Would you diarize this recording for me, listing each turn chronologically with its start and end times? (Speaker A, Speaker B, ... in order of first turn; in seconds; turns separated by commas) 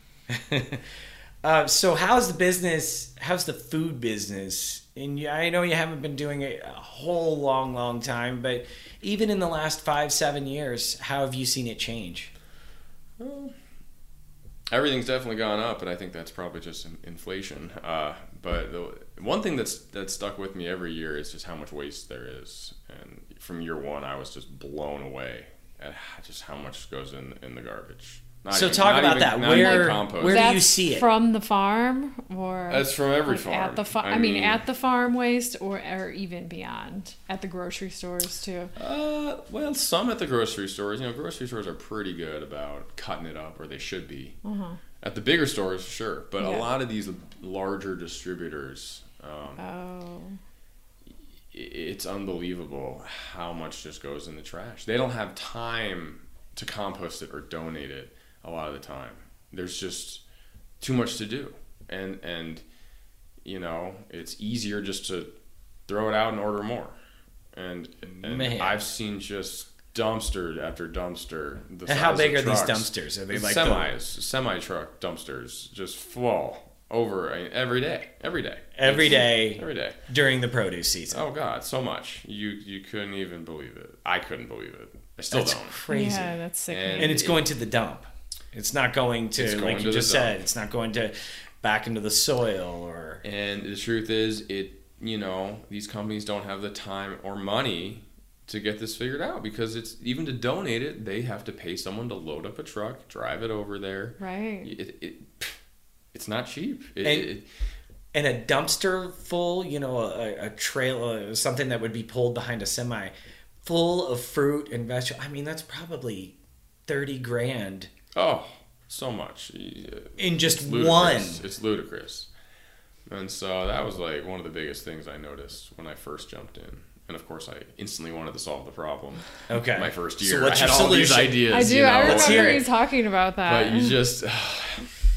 Speaker A: 0.3-0.9, Speaker A: 1.4-12.3, Speaker B: 13.2-13.5, Speaker B: 14.7-30.6, Speaker A: 28.5-31.1, Speaker C: 29.5-38.7, Speaker B: 32.7-34.6, Speaker B: 38.8-44.4, Speaker C: 44.4-44.8, Speaker B: 45.0-49.6, Speaker C: 46.4-46.7, Speaker C: 49.6-50.4, Speaker B: 51.5-60.2, Speaker B: 60.8-62.6, Speaker B: 63.4-65.3, Speaker B: 65.9-67.0, Speaker B: 67.5-80.0, Speaker A: 68.2-68.8, Speaker A: 71.8-73.9, Speaker A: 78.8-81.2, Speaker B: 81.1-85.8, Speaker A: 85.3-86.3, Speaker C: 85.9-87.2, Speaker B: 86.7-87.4, Speaker A: 87.0-93.2, Speaker B: 89.4-90.4, Speaker B: 93.2-105.5, Speaker C: 104.2-104.7, Speaker B: 106.1-107.5, Speaker A: 107.0-107.3, Speaker A: 108.1-116.3, Speaker A: 116.9-117.9, Speaker B: 118.1-122.3, Speaker A: 120.2-121.4, Speaker B: 123.1-132.7, Speaker A: 129.5-132.7, Speaker C: 131.5-134.0, Speaker B: 133.4-134.9